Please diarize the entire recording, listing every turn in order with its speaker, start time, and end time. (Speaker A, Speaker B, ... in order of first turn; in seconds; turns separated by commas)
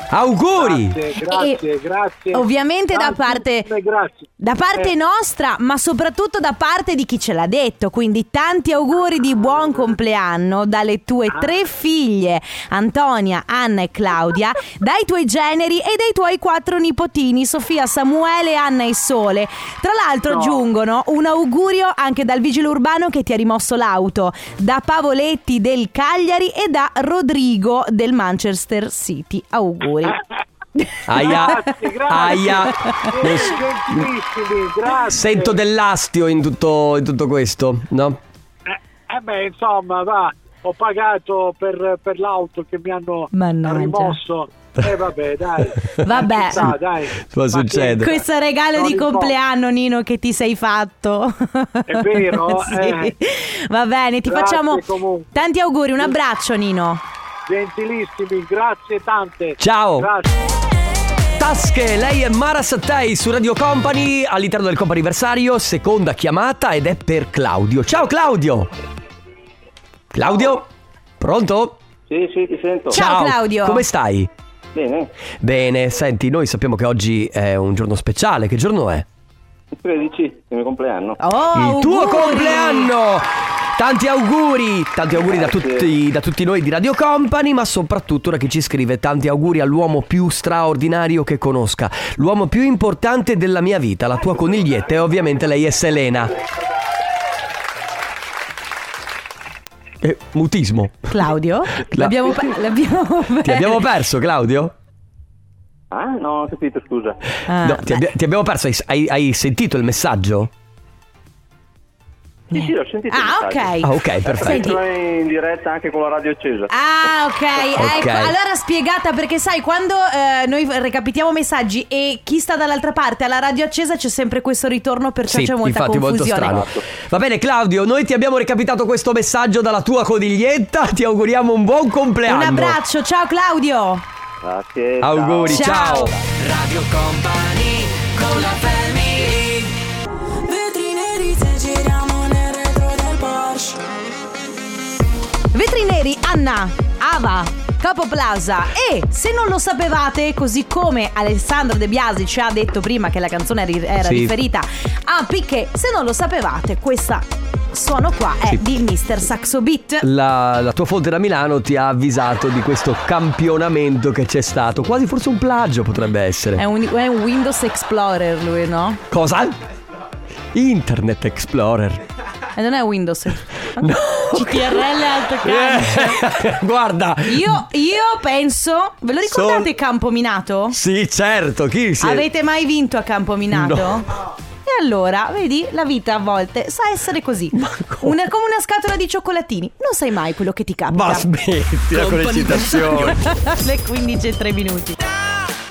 Speaker A: 0.1-1.0, Speaker B: 0.6-4.9, Speaker C: 1.2-1.6, Speaker C: 2.3-3.7, Speaker C: 4.4-30.2, Speaker B: 20.3-20.6, Speaker C: 30.8-31.7, Speaker A: 31.1-34.1, Speaker B: 31.1-35.6, Speaker C: 32.3-33.1, Speaker A: 35.1-38.2, Speaker B: 38.6-48.2, Speaker C: 43.3-44.2, Speaker C: 46.0-46.7, Speaker A: 47.2-48.1, Speaker C: 47.9-57.0, Speaker B: 48.7-49.4, Speaker B: 51.9-53.1, Speaker B: 54.2-55.3, Speaker B: 57.5-60.3, Speaker A: 59.6-60.1, Speaker A: 61.4-68.7, Speaker A: 70.1-70.7, Speaker A: 71.2-71.8, Speaker D: 72.1-73.0, Speaker C: 72.9-73.8, Speaker A: 72.9-74.3, Speaker D: 74.7-75.1, Speaker A: 75.4-79.0, Speaker D: 79.7-81.2, Speaker C: 81.2-82.9, Speaker A: 81.5-96.4, Speaker D: 85.1-85.9, Speaker A: 100.0-101.1, Speaker C: 101.1-103.8, Speaker A: 101.8-102.5, Speaker A: 103.4-104.7, Speaker D: 105.9-107.2, Speaker C: 107.5-108.0, Speaker A: 107.6-110.5, Speaker D: 112.5-117.1, Speaker C: 112.5-114.8, Speaker A: 113.8-114.8, Speaker C: 116.7-126.7, Speaker A: 117.7-118.3, Speaker A: 125.3-132.8, Speaker D: 126.4-126.8, Speaker C: 132.2-134.0, Speaker D: 134.4-136.1, Speaker A: 135.0-139.7, Speaker C: 135.5-136.1, Speaker E: 140.5-143.8, Speaker C: 145.5-160.1, Speaker A: 154.0-154.3, Speaker A: 160.0-166.6, Speaker C: 166.6-169.0, Speaker A: 169.1-169.6, Speaker A: 170.5-172.0, Speaker C: 172.6-176.3, Speaker A: 173.8-174.9, Speaker A: 175.4-177.6, Speaker C: 177.2-180.8, Speaker A: 179.2-179.7, Speaker A: 180.7-182.3, Speaker C: 182.0-184.1, Speaker A: 183.5-184.0, Speaker C: 184.7-191.3, Speaker A: 187.5-188.2, Speaker A: 190.9-193.2, Speaker C: 191.9-195.0